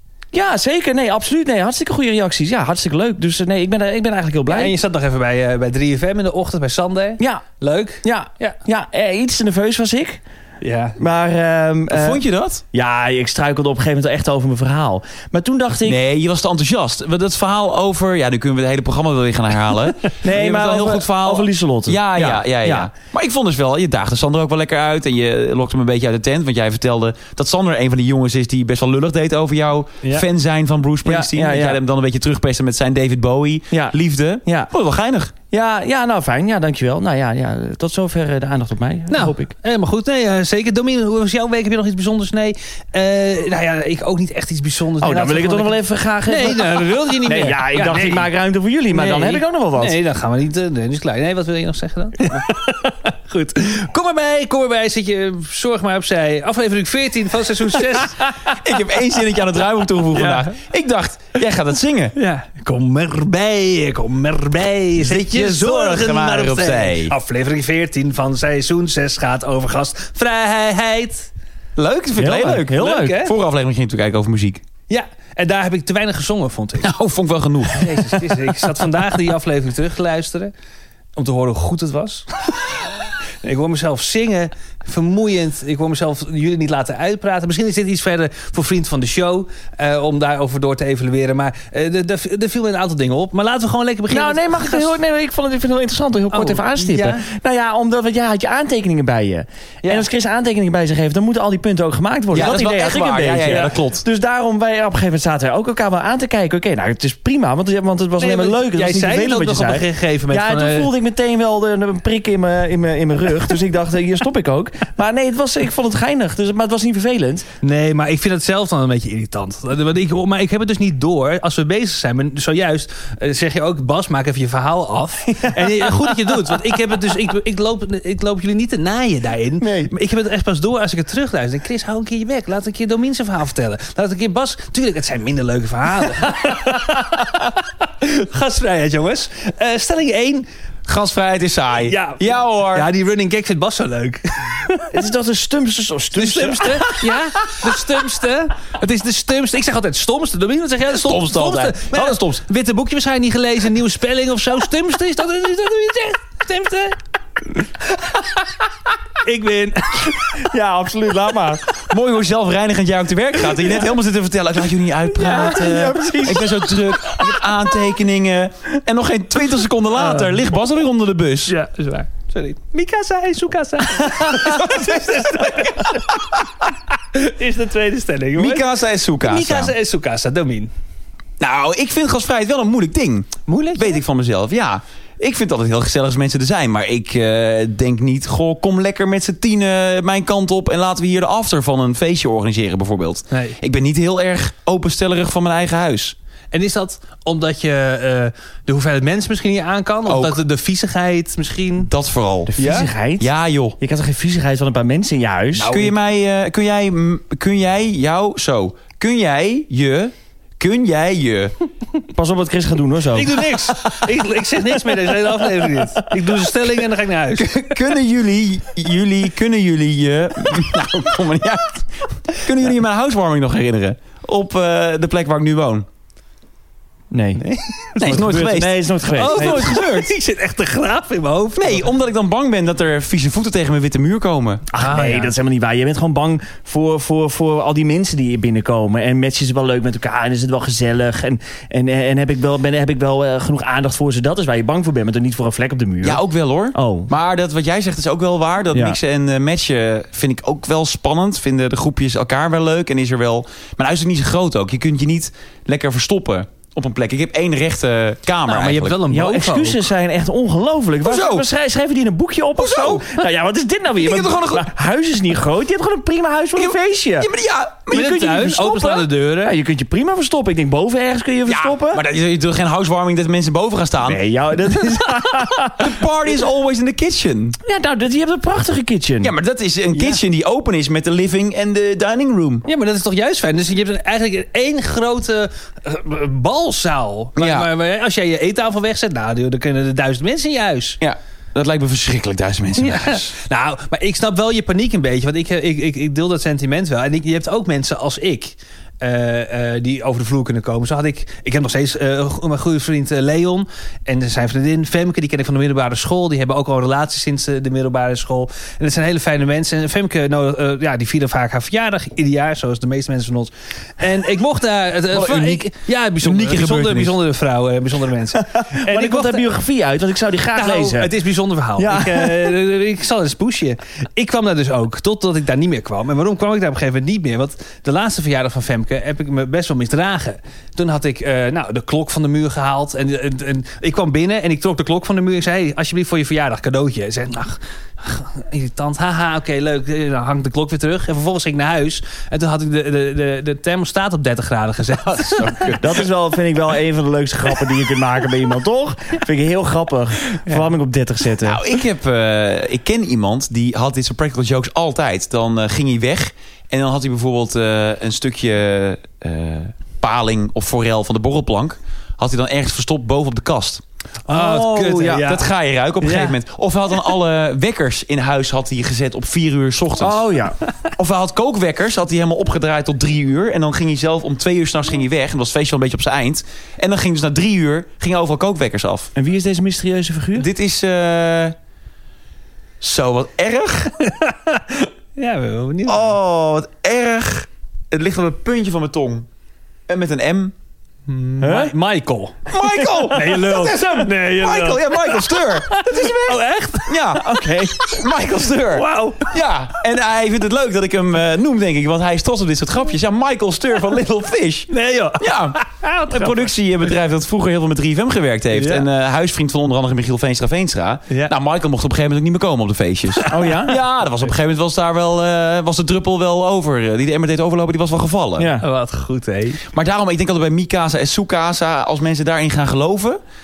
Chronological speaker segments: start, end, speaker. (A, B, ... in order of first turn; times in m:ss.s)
0:00.3-0:04.7 A
0:04.5-0:08.6 B
0:07.2-0:07.4 A
0:08.0-0:10.2 A
0:10.6-0:11.0 B
0:11.0-0:12.2 A
0:11.9-0:12.6 C
0:12.7-0:16.0 A
0:15.8-0:35.3 C
0:20.2-0:22.9 A
0:31.0-0:31.8 A
0:33.7-0:34.7 A
0:35.5-0:39.5 A
0:39.1-0:48.3 B
0:45.0-0:50.0 A
0:48.9-0:58.5 B
0:58.4-1:02.1 C
1:00.1-1:00.5 B
1:02.2-1:11.3 B
1:05.0-1:07.2 C
1:11.8-1:14.6 C
1:12.2-1:13.2 A
1:12.7-1:13.3 B
1:14.9-1:16.9 B
1:16.8-1:18.5 C
1:17.7-1:20.5 B
1:21.2-1:22.8 B
1:23.4-1:34.9 B
1:34.1-1:57.5 A
1:36.3-1:37.2 B
1:42.3-1:44.0 C
1:48.2-1:50.9 B
1:57.6-2:20.5 B
2:05.4-2:05.7 A
2:09.6-2:09.9 A
2:20.9-2:22.9 C
2:21.8-2:24.8 B
2:24.9-2:27.1 A
2:26.1-2:37.0 B
2:30.9-2:32.4 C
2:39.2-2:40.2 B
2:40.2-2:41.7 A
2:41.8-2:51.5 C
2:45.1-2:47.5 A
2:50.0-2:50.4 B
2:51.5-2:56.1 B
2:54.5-2:54.8 C
2:57.1-2:58.7 B
2:58.4-2:59.7 C
2:59.2-3:00.7 B
3:01.4-3:16.1 C
3:03.5-3:04.0 B
3:13.3-3:13.6 B
3:16.5-3:21.9 B
3:20.1-3:20.4 C
3:21.9-3:22.5 C
3:22.5-3:23.3 A
3:22.6-3:22.9 B
3:23.2-3:23.8 C
3:23.8-3:25.8 A
3:25.6-3:25.9 B
3:25.6-3:31.5 C
3:32.1-3:33.5 A
3:33.1-3:37.8 B
3:37.4-3:45.8 C
3:47.1-3:47.4 A
3:47.4-3:48.0 B
3:48.0-3:49.8 A
3:48.0-3:50.1 C
3:49.1-3:51.9 B
3:51.6-3:54.6 C
3:54.7-3:55.3 B
3:54.7-4:06.2 A
4:06.0-4:19.0 C
4:06.7-4:07.1 A
4:08.7-4:09.0 A
4:18.4-4:19.8 B
4:19.1-4:27.3 A
4:21.0-4:21.5 C
4:22.6-4:23.1 C
4:24.0-4:24.7 C
4:26.6-4:28.6 C
4:27.9-4:29.6 B
4:27.9-4:32.0 A
4:31.5-4:34.2 C
4:34.0-4:36.0 A
4:35.7-4:37.6 C
4:37.6-4:39.3 A
4:39.2-4:42.6 C
4:42.6-4:51.0 B
4:47.4-4:47.7 C
4:51.0-4:53.3 C
4:52.8-5:19.5 B
5:15.1-5:17.2 C
5:18.3-5:21.1 A
5:20.5-5:45.7 B
5:21.8-5:22.6 A
5:45.1-5:46.0 C
5:45.8-5:51.6 A
5:51.4-6:03.8 C
6:04.3-6:05.4 B
6:04.3-6:05.3 A
6:05.1-6:10.2 C
6:06.0-6:06.3 B
6:10.0-6:10.6 A
6:11.0-6:19.1 C
6:19.1-6:20.5 A
6:20.3-6:21.6 C
6:22.8-6:24.0 C
6:24.0-6:26.1 B
6:25.9-6:29.2 C
6:29.9-6:30.5 C
6:31.1-6:32.5 B
6:31.4-6:31.7 A
6:32.5-6:45.6 C
6:32.8-6:33.1 A
6:33.1-6:37.1 B
6:37.2-6:37.8 A
6:38.7-6:39.3 B
6:44.7-6:46.5 B
6:46.1-6:58.5 C
6:53.3-6:53.8 A
6:58.4-6:58.6 A
6:58.6-6:59.6 B
6:59.7-7:03.2 C